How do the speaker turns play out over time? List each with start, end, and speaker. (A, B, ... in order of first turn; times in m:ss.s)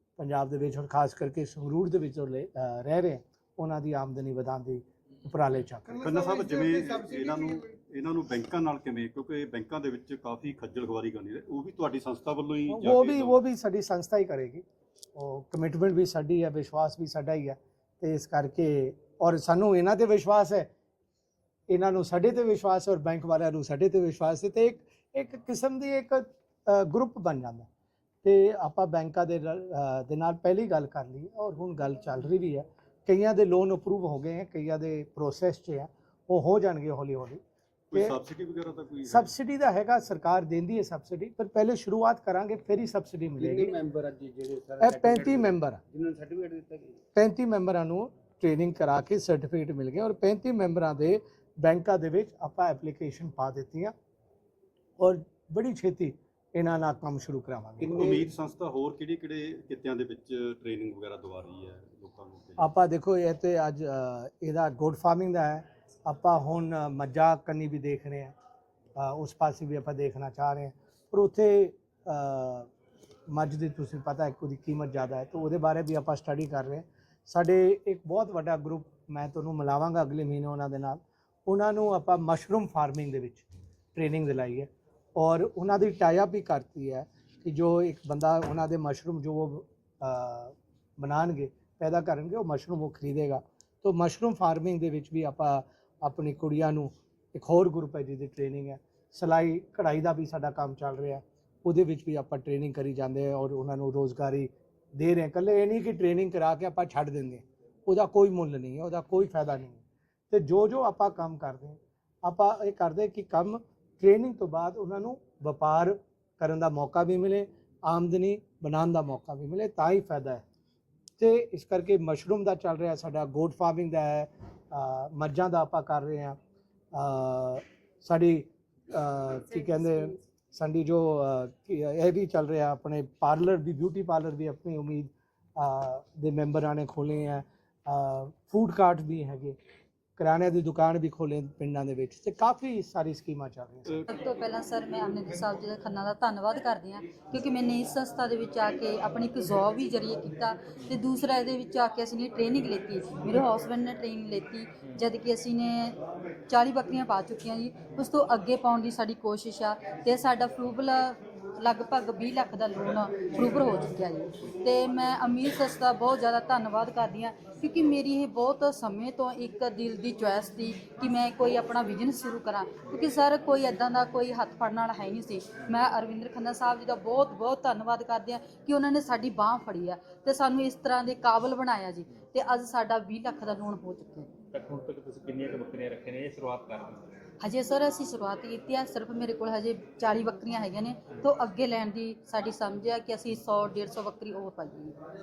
0:00.2-0:06.0 A
0:06.0-0:13.4 B
0:12.7-0:14.6 A
0:15.2-0:20.7 A
0:21.7-0:27.7 A
0:28.2-0:37.4 A
0:37.9-0:39.3 B
0:39.1-0:43.7 A
0:43.4-0:47.0 C
0:44.8-0:45.8 A
0:47.2-0:53.9 A
0:55.0-0:58.3 A
0:57.8-1:02.7 B
1:02.6-1:08.3 A
1:09.0-1:12.7 A
1:13.3-2:00.4 A
2:01.2-2:06.4 A
2:06.9-2:19.6 A
2:20.2-2:24.0 A
2:24.1-2:36.0 D
2:36.5-3:04.3 D
3:04.5-3:07.1 E
3:07.4-3:15.0 D